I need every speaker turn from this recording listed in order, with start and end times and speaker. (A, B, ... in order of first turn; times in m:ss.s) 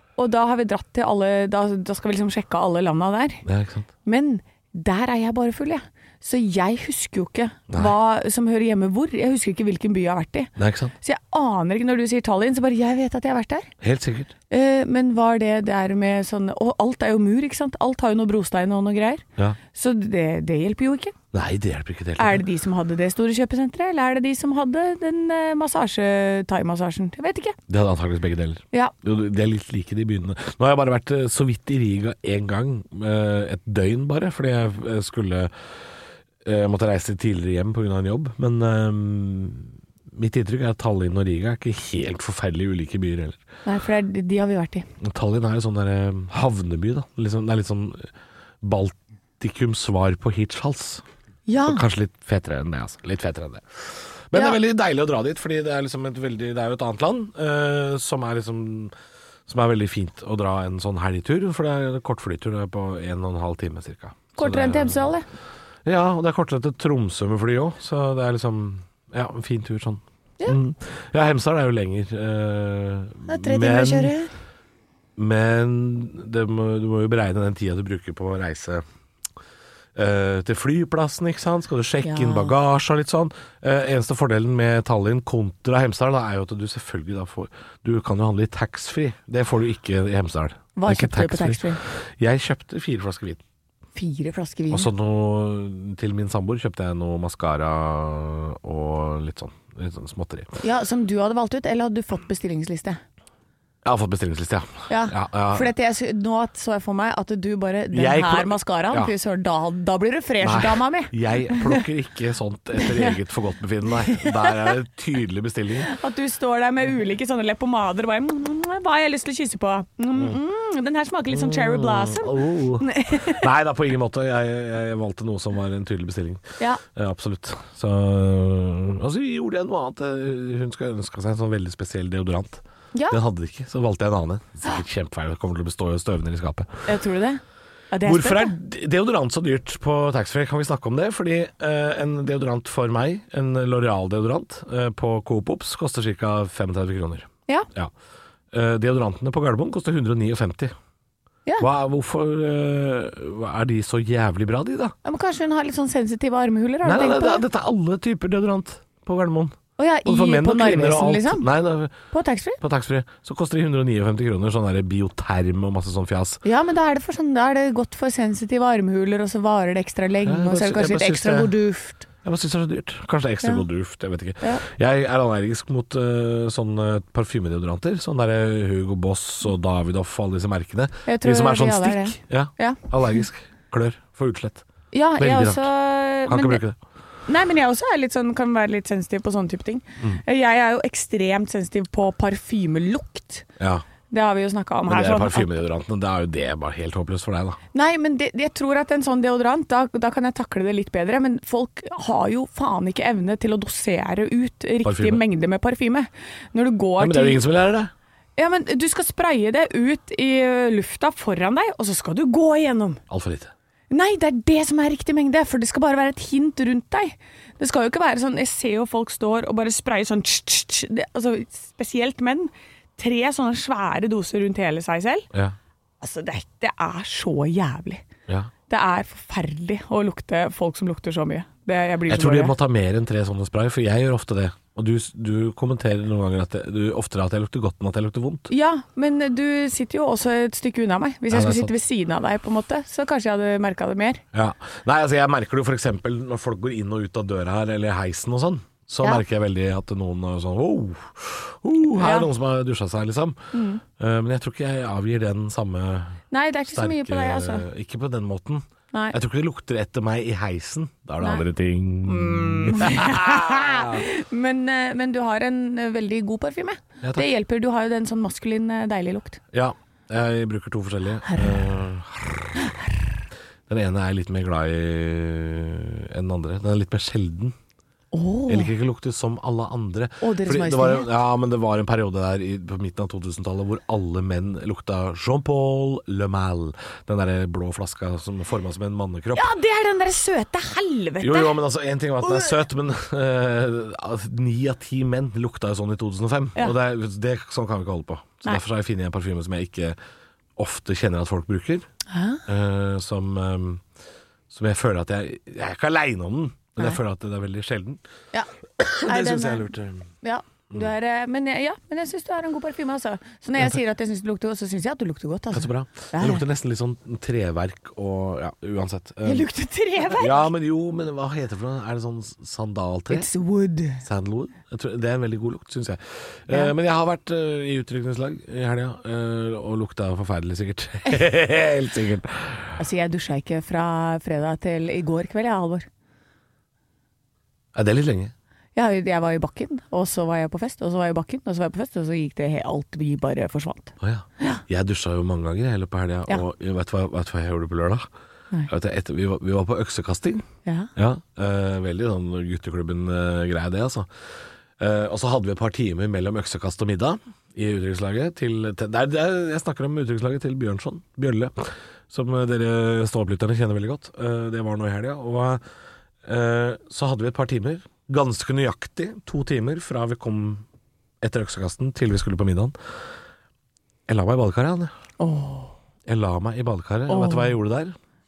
0:00.2-0:03.4 A
0:03.4-0:03.9 B
0:04.0-0:13.7 A
0:10.6-0:10.9 B
0:13.8-0:14.3 B
0:14.5-0:21.1 A
0:21.3-0:22.4 B
0:22.2-0:27.6 A
0:27.7-0:35.5 B
0:36.4-0:43.4 B
0:43.6-0:44.8 A
0:45.0-0:48.1 B
0:48.6-0:51.0 B
0:51.5-0:51.8 A
0:51.7-0:58.9 B
0:59.5-1:05.0 B
1:04.4-1:05.2 A
1:05.8-1:14.1 B
1:13.2-1:14.3 A
1:15.2-1:18.8 B
1:19.9-1:33.4 B
1:22.0-1:22.5 A
1:30.8-1:31.8 A
1:33.9-1:34.9 A
1:34.7-1:40.6 B
1:40.6-1:43.0 A
1:43.8-1:45.7 B
1:44.9-1:51.8 A
1:47.9-1:49.1 B
1:50.4-1:55.9 B
1:52.8-1:53.1 A
1:54.1-1:54.7 A
1:55.8-2:03.4 A
2:01.3-2:16.8 B
2:16.8-2:18.5 A
2:18.0-2:27.9 B
2:28.5-2:30.7 B
2:31.6-2:34.9 B
2:35.0-2:37.4 A
2:36.8-2:41.9 B
2:39.8-2:41.5 A
2:42.1-2:42.6 A
2:42.6-2:46.4 B
2:46.4-2:52.0 A
2:50.2-2:51.5 B
2:52.2-3:04.6 B
3:01.0-3:02.8 A
3:04.9-3:06.6 A
3:05.2-3:05.7 B
3:06.2-3:06.8 B
3:07.3-3:13.4 A
3:13.6-3:13.8 B
3:14.1-3:15.5 A
3:14.9-3:17.6 B
3:17.7-3:27.4 A
3:24.8-3:25.2 B
3:27.0-3:27.9 B
3:28.4-3:33.0 A
3:33.1-3:33.5 B
3:33.9-3:45.3 A
3:46.0-3:48.0 A
3:48.7-3:52.5 A
3:52.1-3:58.5 B
3:58.5-4:04.2 A
4:01.3-4:01.7 B
4:04.3-4:24.0 B
4:12.0-4:12.3 A
4:13.5-4:13.8 A
4:16.3-4:17.6 A
4:18.9-4:19.2 A
4:22.0-4:29.4 A
4:29.5-4:32.7 B
4:31.2-4:31.7 A
4:33.7-4:37.6 B
4:38.1-4:38.7 A
4:38.5-4:49.5 B
4:40.2-4:41.1 A
4:49.3-4:51.6 A
4:51.2-5:00.0 B
4:52.2-4:52.6 A
5:00.6-5:01.9 B
5:02.1-5:02.4 A
5:02.4-5:03.8 B
5:04.5-5:08.0 B
5:08.3-5:09.7 A
5:08.8-5:10.1 B
5:10.2-5:16.4 A
5:15.5-5:19.5 B
5:19.2-5:20.4 A
5:20.1-5:23.3 B
5:23.1-5:24.0 A
5:24.0-5:32.8 B
5:32.8-5:35.9 A
5:37.7-5:38.3 B
5:38.7-5:44.6 A
5:44.0-5:48.0 B
5:48.7-5:50.4 B
5:51.0-5:54.1 B
5:54.8-6:05.6 B
6:06.2-6:10.6 B
6:11.2-6:12.7 B
6:14.1-6:14.9 B
6:15.2-6:15.7 A
6:16.1-6:17.9 B
6:17.1-6:17.5 A